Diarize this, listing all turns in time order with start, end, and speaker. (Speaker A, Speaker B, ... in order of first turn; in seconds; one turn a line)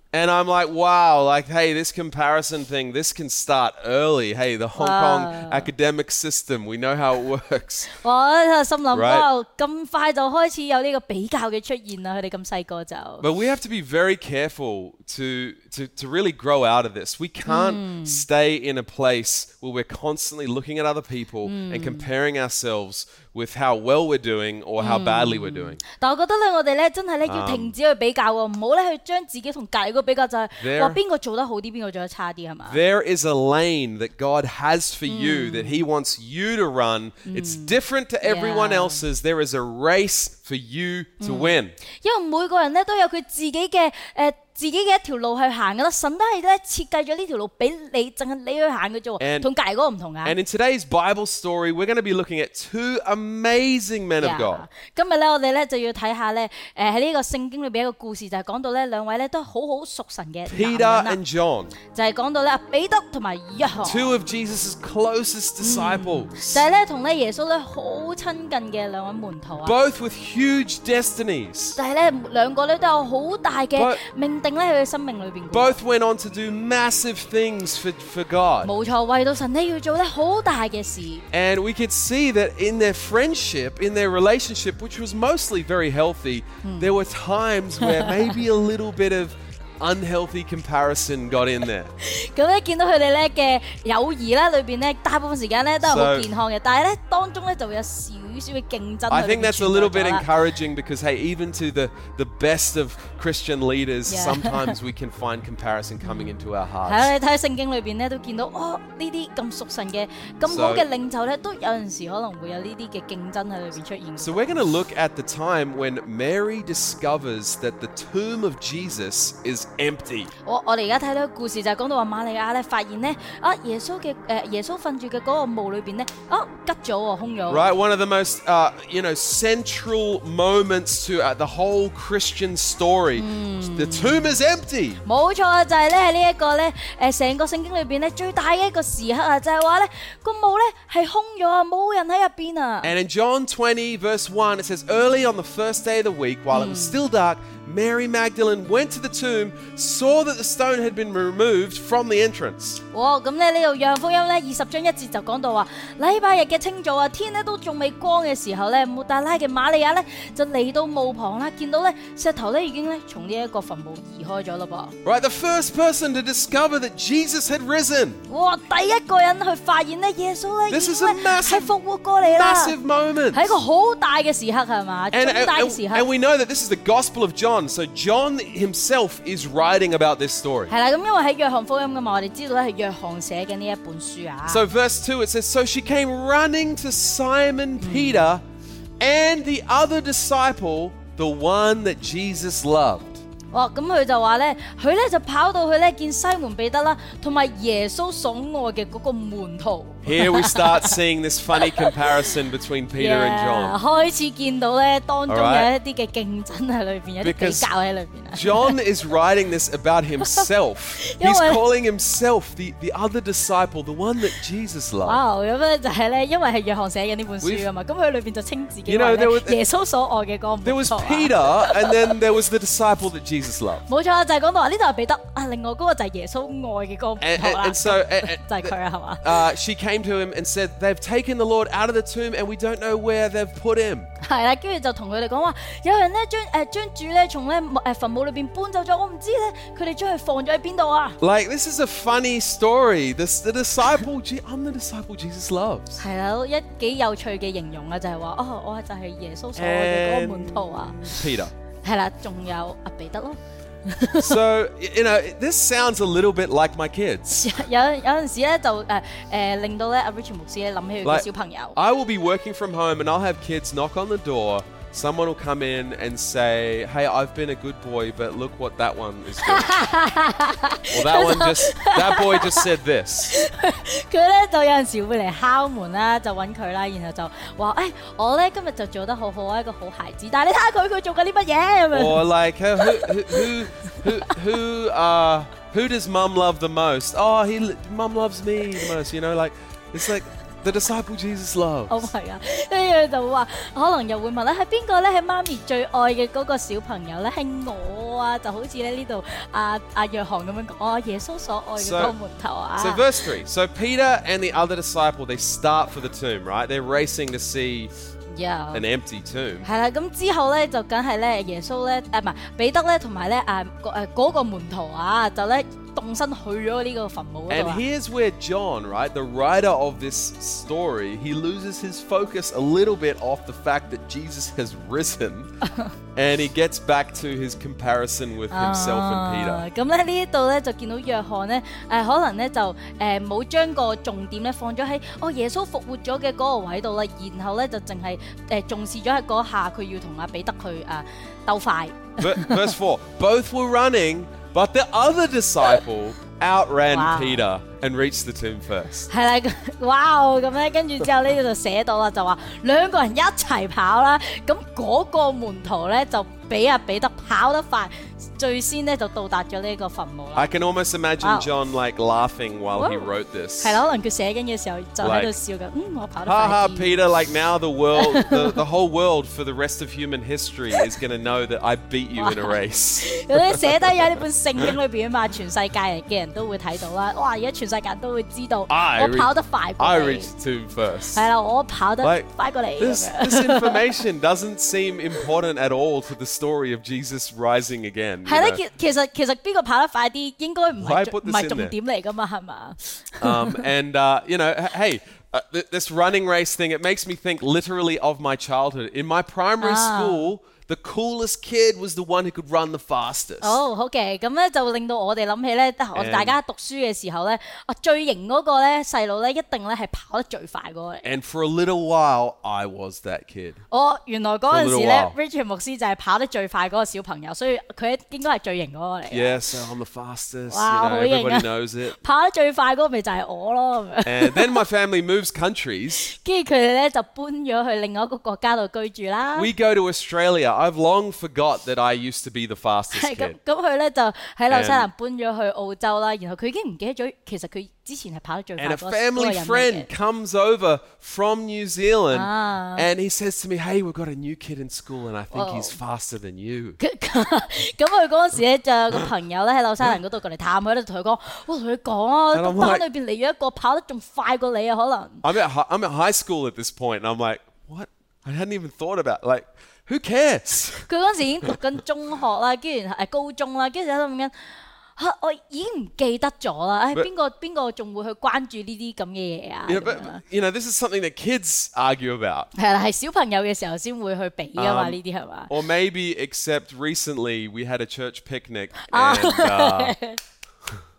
Speaker A: 0.1-7.9
Speaker B: 4.8-5.7
Speaker B: 7.9-13.2
Speaker A: 8.9-9.3
Speaker A: 13.2-25.8
Speaker B: 17.4-18.2
Speaker B: 21.4-22.1
Speaker B: 24.8-32.8
Speaker A: 27.2-27.7
Speaker A: 30.6-31.0
Speaker A: 32.7-41.8
Speaker B: 35.0-35.8
Speaker B: 37.3-39.0
Speaker B: 41.2-50.4
Speaker A: 49.2-49.5
Speaker A: 50.2-54.6
Speaker B: 54.2-61.2
Speaker A: 60.5-61.7
Speaker B: 61.9-64.2
Speaker A: 63.8-66.6
Speaker B: 65.6-69.8
Speaker A: 69.6-71.8
Speaker B: 71.8-75.8
Speaker A: 73.7-74.0
Speaker A: 75.5-78.7
Speaker B: 78.6-81.2
Speaker A: 81.3-91.9
Speaker B: 86.6-86.9
Speaker B: 87.8-88.3
Speaker B: 92.0-100.3
Speaker A: 95.8-96.3
Speaker A: 99.1-107.1
Speaker B: 104.1-104.8
Speaker B: 106.0-114.5
Speaker A: 110.4-110.8
Speaker A: 114.2-120.3
Speaker B: 120.4-127.7
Speaker A: 127.5-135.0
Speaker B: 133.2-134.3
Speaker B: 135.0-142.9
Speaker A: 142.8-152.8
Speaker B: 146.5-147.0
Speaker B: 152.9-164.9
Speaker A: 165.0-168.2
Speaker B: 168.3-172.8
Speaker A: 170.7-173.5
Speaker B: 173.3-176.1
Speaker A: 175.1-180.7
Speaker B: 180.7-184.6
Speaker A: 184.4-188.4
Speaker B: 187.8-188.3
Speaker A: 189.0-193.2
Speaker B: 193.5-201.0
Speaker A: 200.0-203.8
Speaker B: 201.6-202.3
Speaker B: 202.9-208.8
Speaker A: 205.3-205.7
Speaker A: 207.2-207.7
Speaker A: 208.3-215.2
Speaker B: 210.2-210.5
Speaker B: 211.0-211.6
Speaker B: 215.0-222.1
Speaker A: 217.4-217.7
Speaker A: 218.8-219.6
Speaker A: 220.6-223.8
Speaker B: 223.9-229.4
Speaker A: 227.2-234.1
Speaker B: 234.2-241.2
Speaker A: 241.2-246.0
Speaker B: 246.0-251.2
Speaker A: 249.6-251.5
Speaker B: 251.8-254.4
Speaker A: 254.1-257.5
Speaker B: 257.3-261.8
Speaker A: 261.0-269.8
Speaker B: 269.4-272.7
Speaker A: 270.9-273.4
Speaker B: 273.3-282.2
Speaker A: 281.9-292.0
Speaker B: 282.8-284.3
Speaker B: 291.9-303.0
Speaker A: 301.8-302.1
Speaker A: 302.8-307.9
Speaker B: 308.3-308.8
Speaker A: 308.7-309.7
Speaker B: 309.6-317.8
Speaker A: 317.5-325.5
Speaker B: 325.6-325.9
Speaker A: 326.1-329.6
Speaker B: 328.5-342.7
Speaker A: 342.2-349.1
Speaker B: 346.9-347.4
Speaker B: 349.1-360.5
Speaker A: 360.3-363.8
Speaker B: 361.2-361.5
Speaker B: 362.7-363.1
Speaker B: 363.6-366.9
Speaker A: 365.0-365.3
Speaker A: 366.2-374.2
Speaker B: 368.0-368.6
Speaker B: 372.2-380.3
Speaker A: 378.7-381.3
Speaker B: 381.1-384.0
Speaker A: 382.0-388.6
Speaker B: 388.2-393.6
Speaker A: 390.8-391.7
Speaker A: 393.2-403.6
Speaker B: 399.6-400.3
Speaker B: 403.4-411.1
Speaker A: 405.9-406.4
Speaker A: 411.0-413.6
Speaker B: 413.7-419.4
Speaker A: 414.5-415.1
Speaker A: 419.1-421.9
Speaker B: 420.5-424.6
Speaker A: 424.0-426.1
Speaker B: 426.0-429.5
Speaker A: 429.3-433.4
Speaker B: 432.9-439.9
Speaker A: 434.5-434.9
Speaker A: 438.6-446.8
Speaker B: 442.1-442.9
Speaker B: 445.3-445.8
Speaker B: 446.8-455.2
Speaker A: 452.3-452.8
Speaker A: 455.2-460.9
Speaker B: 460.9-464.3
Speaker B: 465.0-470.2
Speaker A: 469.7-472.5
Speaker B: 472.5-475.5
Speaker A: 474.6-480.0
Speaker B: 478.9-480.2